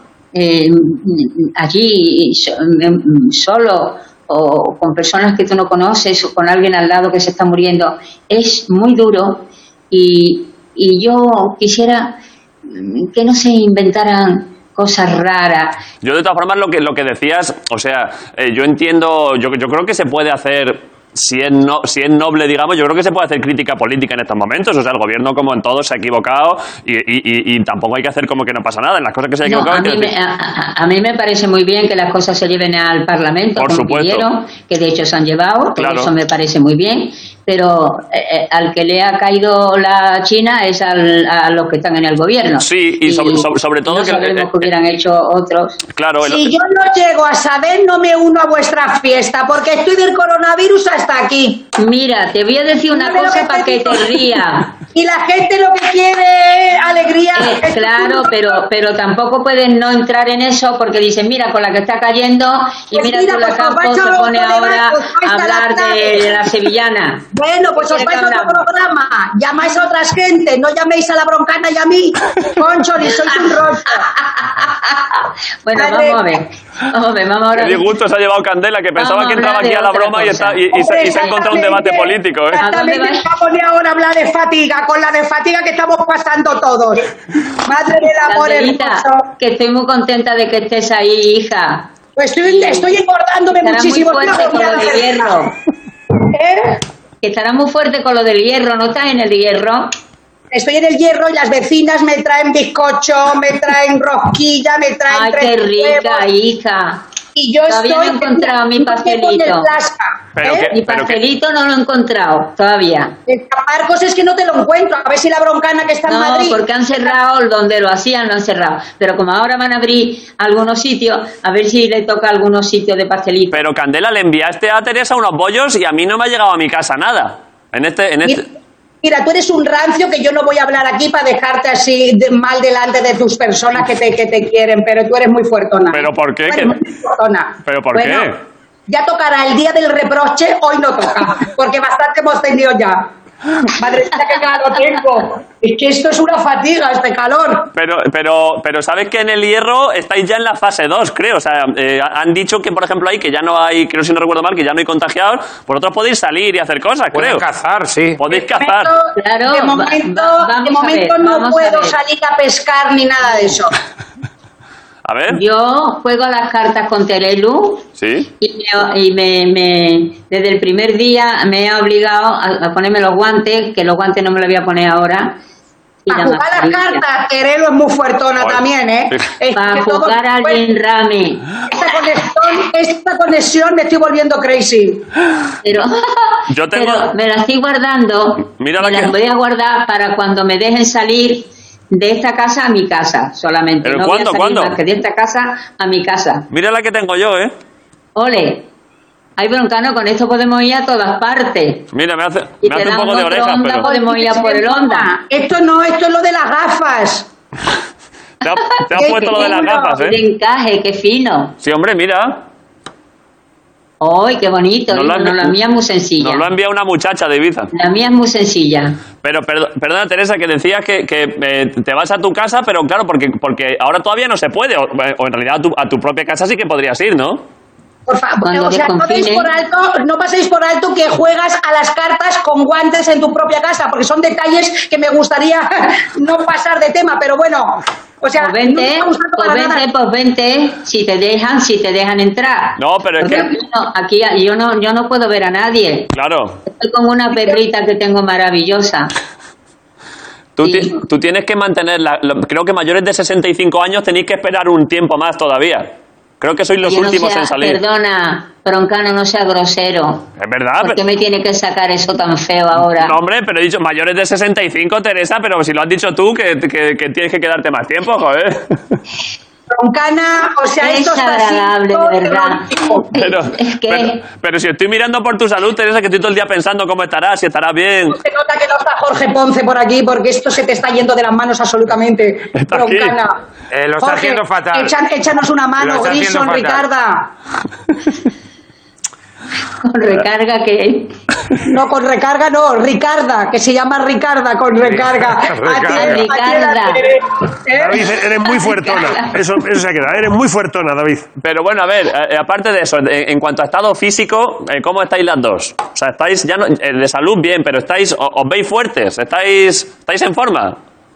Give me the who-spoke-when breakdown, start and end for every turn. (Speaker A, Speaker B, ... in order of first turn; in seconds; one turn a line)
Speaker A: 0.3-15.8
Speaker B: 16.0-30.1
Speaker A: 29.4-45.8
Speaker B: 33.6-34.3
Speaker B: 35.8-36.1
Speaker B: 42.6-44.7
Speaker B: 46.0-46.5
Speaker C: 46.2-51.7
Speaker A: 51.8-54.8
Speaker C: 53.0-54.2
Speaker C: 54.9-58.6
Speaker A: 57.4-68.7
Speaker C: 62.9-66.3
Speaker C: 67.3-74.1
Speaker A: 73.3-77.9
Speaker C: 75.8-76.2
Speaker B: 77.6-82.6
Speaker A: 79.0-81.6
Speaker C: 80.8-87.1
Speaker A: 82.6-83.3
Speaker C: 87.7-89.3
Speaker A: 88.2-93.0
Speaker C: 92.2-95.4
Speaker A: 93.5-95.5
Speaker C: 96.3-96.8
Speaker A: 97.2-99.9
Speaker C: 100.5-106.2
Speaker A: 105.1-107.0
Speaker C: 107.3-110.7
Speaker A: 107.7-109.7
Speaker B: 110.4-111.2
Speaker A: 110.7-113.2
Speaker C: 113.3-116.6
Speaker A: 116.0-123.6
Speaker B: 123.5-128.4
Speaker C: 129.0-138.3
Speaker B: 135.9-136.8
Speaker B: 137.7-138.4
Speaker C: 138.9-143.1
Speaker C: 143.8-147.7
Speaker B: 147.7-157.4
Speaker D: 157.1-158.2
Speaker B: 158.2-158.9
Speaker C: 158.3-163.7
Speaker A: 159.2-162.0
Speaker B: 165.1-165.4
Speaker A: 165.3-167.9
Speaker B: 168.0-168.3
Speaker A: 168.4-175.4
Speaker A: 176.1-177.0
Speaker C: 176.1-180.6
Speaker A: 179.5-181.5
Speaker C: 181.7-185.0
Speaker A: 185.6-196.5
Speaker B: 186.5-187.1
Speaker B: 188.6-189.2
Speaker B: 193.8-194.8
Speaker B: 196.5-197.5
Speaker A: 198.2-198.7
Speaker A: 199.4-201.9
Speaker B: 201.9-203.8
Speaker A: 202.6-205.2
Speaker C: 203.8-207.3
Speaker B: 208.4-210.2
Speaker A: 208.5-211.5
Speaker C: 209.0-210.0
Speaker B: 211.6-212.4
Speaker A: 214.0-216.5
Speaker B: 214.9-215.6
Speaker B: 216.2-217.7
Speaker A: 217.7-219.0
Speaker B: 219.2-227.4
Speaker C: 228.1-239.9
Speaker A: 228.4-229.5
Speaker A: 238.4-246.1
Speaker B: 242.8-243.5
Speaker B: 246.1-246.6
Speaker A: 246.7-249.1
Speaker B: 250.6-257.8
Speaker A: 250.6-251.0
Speaker A: 256.8-260.3
Speaker B: 260.4-261.0
Speaker A: 260.8-263.2
Speaker B: 263.0-269.0
Speaker C: 269.7-273.1
Speaker A: 270.8-274.2
Speaker B: 273.2-278.2
Speaker C: 278.1-283.4
Speaker B: 282.6-283.1
Speaker D: 283.7-284.9
Speaker C: 284.0-287.3
Speaker D: 285.8-286.9
Speaker A: 289.8-291.2
Speaker C: 291.6-298.0
Speaker D: 294.9-296.3
Speaker A: 295.9-297.0
Speaker E: 297.8-301.3
Speaker A: 298.6-299.3
Speaker B: 301.4-310.8